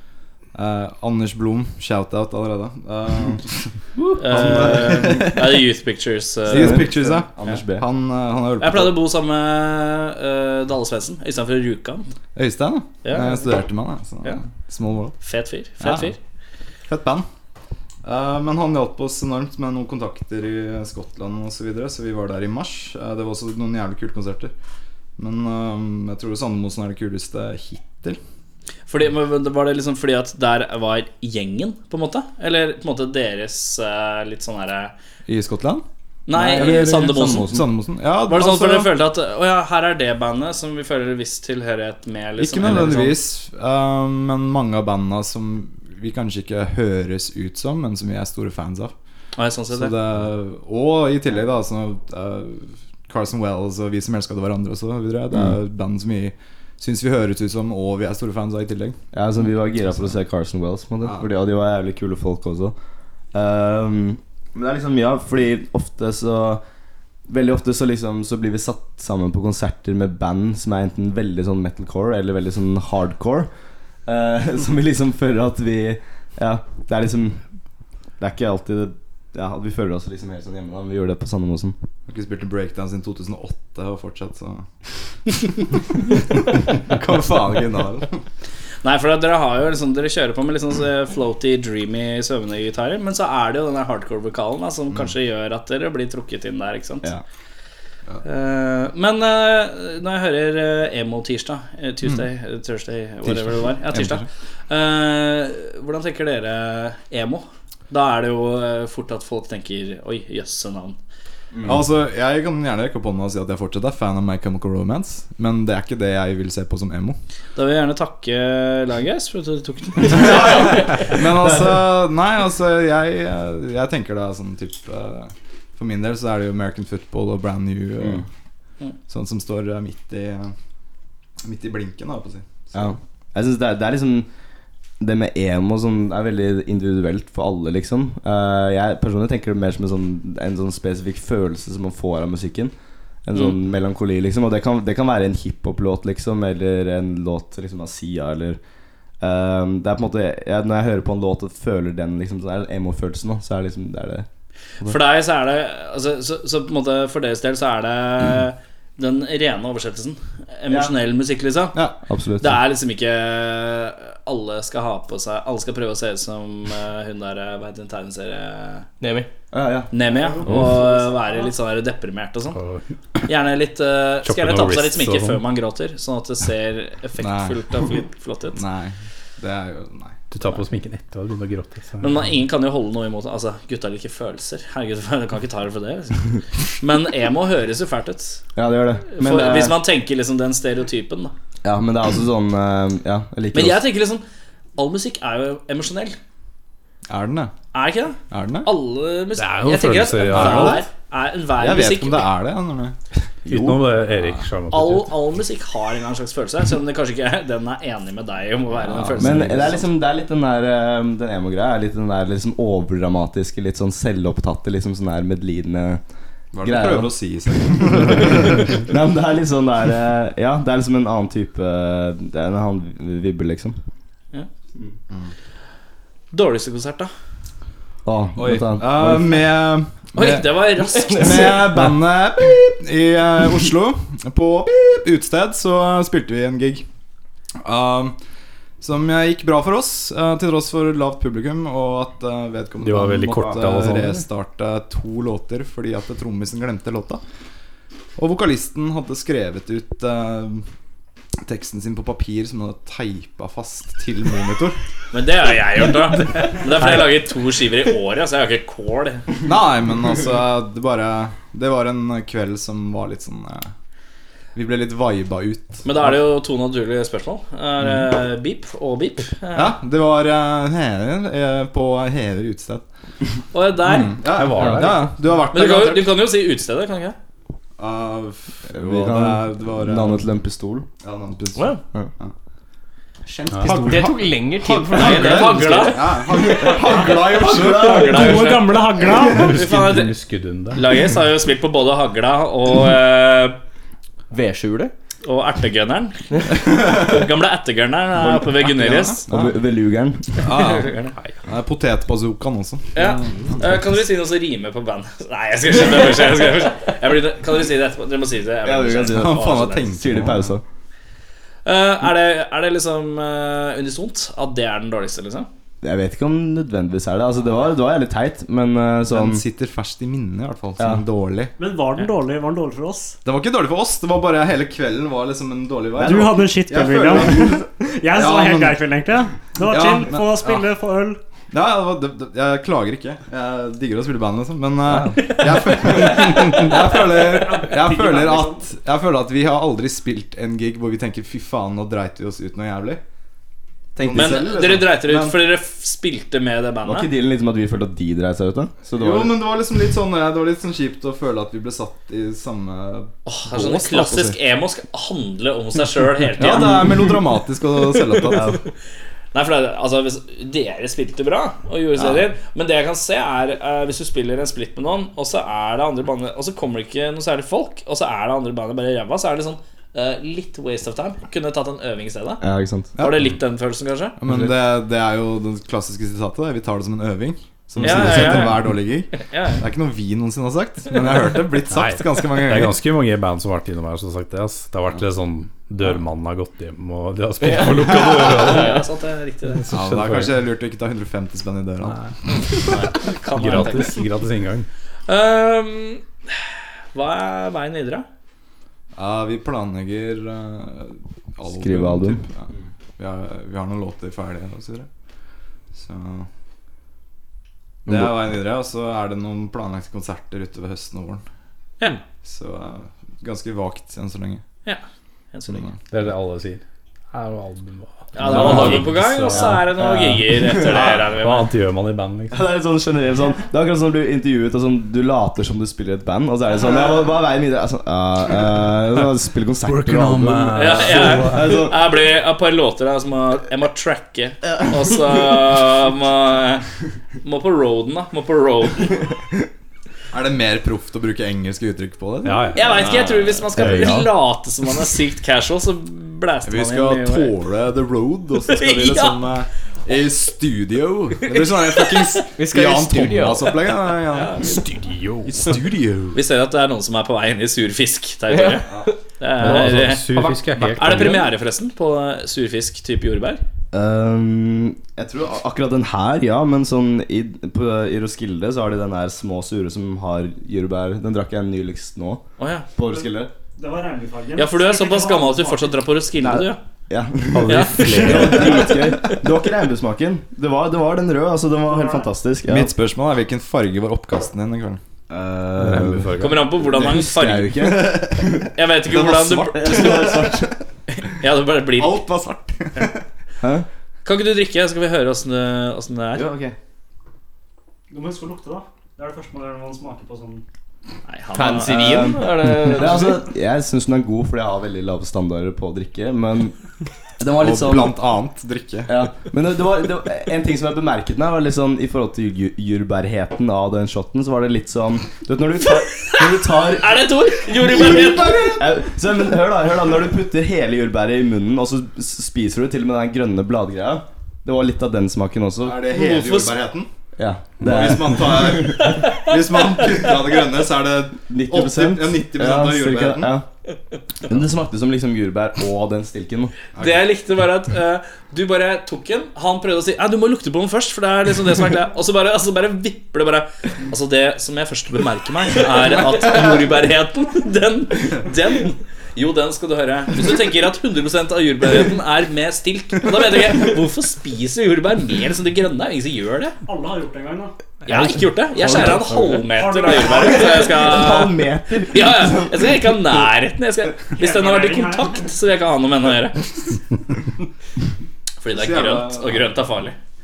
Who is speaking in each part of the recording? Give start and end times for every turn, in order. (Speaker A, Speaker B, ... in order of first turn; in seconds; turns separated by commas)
Speaker A: 0.5-3.7, Speaker B: 4.0-4.8, Speaker C: 4.2-6.9, Speaker A: 4.3-5.6, Speaker B: 6.5-7.8, Speaker A: 6.5-8.9, Speaker C: 8.6-12.1, Speaker A: 12.3-15.2, Speaker C: 13.0-13.4, Speaker C: 15.2-16.2, Speaker A: 15.8-16.1, Speaker A: 16.9-17.3, Speaker A: 18.0-24.5, Speaker A: 25.2-28.2, Speaker C: 28.9-34.9, Speaker A: 35.3-35.8, Speaker C: 36.3-37.5, Speaker B: 36.3-37.7, Speaker A: 36.5-38.9, Speaker C: 38.3-43.2, Speaker A: 42.4-48.9, Speaker C: 49.4-50.0, Speaker A: 49.7-59.0, Speaker B: 59.1-62.7, Speaker B: 63.3-66.6, Speaker B: 67.3-73.5, Speaker B: 74.1-77.4, Speaker B: 78.2-81.8, Speaker A: 82.1-84.7, Speaker A: 85.6-88.2, Speaker C: 88.8-97.1, Speaker C: 98.2-111.0, Speaker A: 103.9-104.3, Speaker B: 111.5-111.8, Speaker A: 111.6-117.2, Speaker C: 117.6-121.1, Speaker A: 120.1-128.3, Speaker B: 121.4-121.6, Speaker B: 128.0-128.3, Speaker A: 129.1-130.5, Speaker A: 131.4-132.9, Speaker B: 132.7-134.3, Speaker B: 135.0-142.7, Speaker B: 143.2-148.6, Speaker B: 149.2-154.3, Speaker C: 154.8-161.8, Speaker B: 162.1-162.6, Speaker C: 162.4-168.9, Speaker D: 169.0-169.3, Speaker B: 169.5-170.6, Speaker C: 169.9-172.6, Speaker E: 172.6-172.8, Speaker C: 173.3-178.6, Speaker E: 174.2-175.4, Speaker A: 177.2-177.7, Speaker A: 178.5-180.2, Speaker E: 180.3-182.2, Speaker C: 182.0-188.4, Speaker B: 188.6-189.8, Speaker C: 189.1-191.3, Speaker B: 191.6-193.8, Speaker C: 193.5-194.2, Speaker C: 194.8-196.2, Speaker A: 197.1-197.5, Speaker C: 197.7-202.3, Speaker A: 198.3-198.7, Speaker E: 199.4-200.8, Speaker A: 200.3-200.8, Speaker A: 201.6-203.0, Speaker B: 203.5-203.9, Speaker E: 203.5-205.2, Speaker C: 204.7-209.8, Speaker A: 208.9-209.7, Speaker B: 209.2-216.0, Speaker A: 216.5-218.8, Speaker B: 216.6-223.8, Speaker C: 226.3-227.1, Speaker B: 228.1-229.4, Speaker A: 228.4-236.9, Speaker C: 230.2-231.7, Speaker A: 237.6-238.2, Speaker A: 238.8-247.2, Speaker E: 242.8-244.2, Speaker A: 248.2-250.7, Speaker A: 251.4-254.8, Speaker C: 255.1-259.3, Speaker A: 259.4-263.7, Speaker A: 264.5-266.1, Speaker C: 265.9-269.7, Speaker A: 269.5-272.9, Speaker C: 273.5-274.2, Speaker A: 273.9-276.1, Speaker E: 274.3-275.1, Speaker B: 274.6-274.9, Speaker C: 275.5-277.2, Speaker A: 277.8-280.3, Speaker B: 278.7-280.9, Speaker A: 281.0-282.3, Speaker F: 283.3-283.9, Speaker E: 283.5-283.9, Speaker A: 283.6-288.2, Speaker D: 283.7-286.0, Speaker C: 284.9-286.0, Speaker B: 286.3-288.5, Speaker C: 287.5-290.2, Speaker F: 287.6-289.7, Speaker E: 289.2-291.1, Speaker C: 290.7-293.6, Speaker D: 294.3-294.9, Speaker C: 295.2-299.3, Speaker A: 296.7-297.1, Speaker A: 298.5-299.5, Speaker B: 299.3-300.5, Speaker A: 300.4-303.5, Speaker C: 300.5-301.1, Speaker C: 302.9-310.0, Speaker B: 308.6-310.6, Speaker A: 309.1-310.6, Speaker C: 311.6-315.5, Speaker B: 315.8-319.4, Speaker A: 319.1-321.5, Speaker F: 321.6-323.2, Speaker A: 323.2-328.8, Speaker B: 326.0-326.4, Speaker F: 326.0-331.2, Speaker A: 329.6-330.7, Speaker A: 331.5-343.0, Speaker F: 336.6-338.6, Speaker A: 344.0-345.4, Speaker B: 344.0-344.4, Speaker C: 344.1-347.1, Speaker B: 346.8-349.4, Speaker A: 348.9-354.4, Speaker C: 353.3-356.9, Speaker B: 356.4-357.2, Speaker A: 356.4-358.6, Speaker B: 358.2-358.6, Speaker C: 359.3-372.4, Speaker B: 372.4-372.9, Speaker A: 373.0-373.2, Speaker C: 373.0-374.2, Speaker A: 374.2-382.8, Speaker C: 377.8-379.6, Speaker B: 377.9-378.2, Speaker E: 381.7-388.9, Speaker D: 387.4-388.8, Speaker C: 388.1-389.6, Speaker E: 389.6-390.4, Speaker A: 389.7-392.1, Speaker E: 391.9-394.7, Speaker C: 392.7-394.1, Speaker C: 395.1-398.1, Speaker A: 398.9-404.9, Speaker B: 401.5-402.2, Speaker A: 405.7-406.3, Speaker B: 407.9-408.1, Speaker A: 407.9-411.2, Speaker A: 412.2-414.4, Speaker C: 414.6-415.7, Speaker A: 415.5-415.8, Speaker E: 415.9-419.7, Speaker C: 418.1-421.5, Speaker B: 418.3-421.0, Speaker E: 421.1-422.4, Speaker B: 422.3-431.8, Speaker E: 429.6-431.7, Speaker C: 430.6-436.6, Speaker C: 437.2-439.0, Speaker A: 440.1-443.4, Speaker E: 442.2-442.9, Speaker C: 442.5-447.3, Speaker B: 443.5-444.1, Speaker E: 443.6-444.0, Speaker A: 446.4-454.6, Speaker C: 448.5-449.2, Speaker C: 451.3-452.2, Speaker D: 452.4-453.6, Speaker C: 454.1-454.6, Speaker E: 454.4-455.6, Speaker A: 455.2-456.2, Speaker C: 456.1-463.4, Speaker D: 458.3-461.2, Speaker E: 459.4-461.3, Speaker B: 463.7-472.2, Speaker C: 472.4-472.7, Speaker B: 472.8-473.3, Speaker F: 472.9-475.9, Speaker C: 474.4-476.6, Speaker B: 476.1-482.7, Speaker E: 477.3-478.7, Speaker C: 477.5-478.5, Speaker F: 481.7-482.1, Speaker A: 482.5-484.8, Speaker B: 485.1-490.6, Speaker E: 485.6-486.5, Speaker C: 486.2-487.6, Speaker A: 487.6-490.4, Speaker C: 488.6-490.1, Speaker C: 490.9-492.0, Speaker A: 491.8-493.0, Speaker B: 493.4-493.7, Speaker C: 494.1-496.2, Speaker B: 496.1-496.6, Speaker F: 497.9-500.4, Speaker C: 501.1-502.5, Speaker D: 501.4-503.2, Speaker B: 501.4-506.6, Speaker B: 507.2-508.0, Speaker A: 507.4-509.0, Speaker B: 508.9-517.1, Speaker C: 516.8-518.6, Speaker B: 517.7-525.8, Speaker A: 517.8-518.6, Speaker A: 525.6-526.9, Speaker C: 525.9-526.6, Speaker B: 527.2-529.0, Speaker A: 527.6-533.3, Speaker C: 528.8-529.3, Speaker B: 531.3-533.5, Speaker B: 534.2-536.6, Speaker A: 536.8-537.0, Speaker C: 536.8-556.5, Speaker F: 556.6-557.5, Speaker C: 557.9-566.5, Speaker B: 557.9-563.1, Speaker F: 559.4-560.9, Speaker F: 564.1-565.3, Speaker C: 568.4-570.0, Speaker A: 568.5-569.6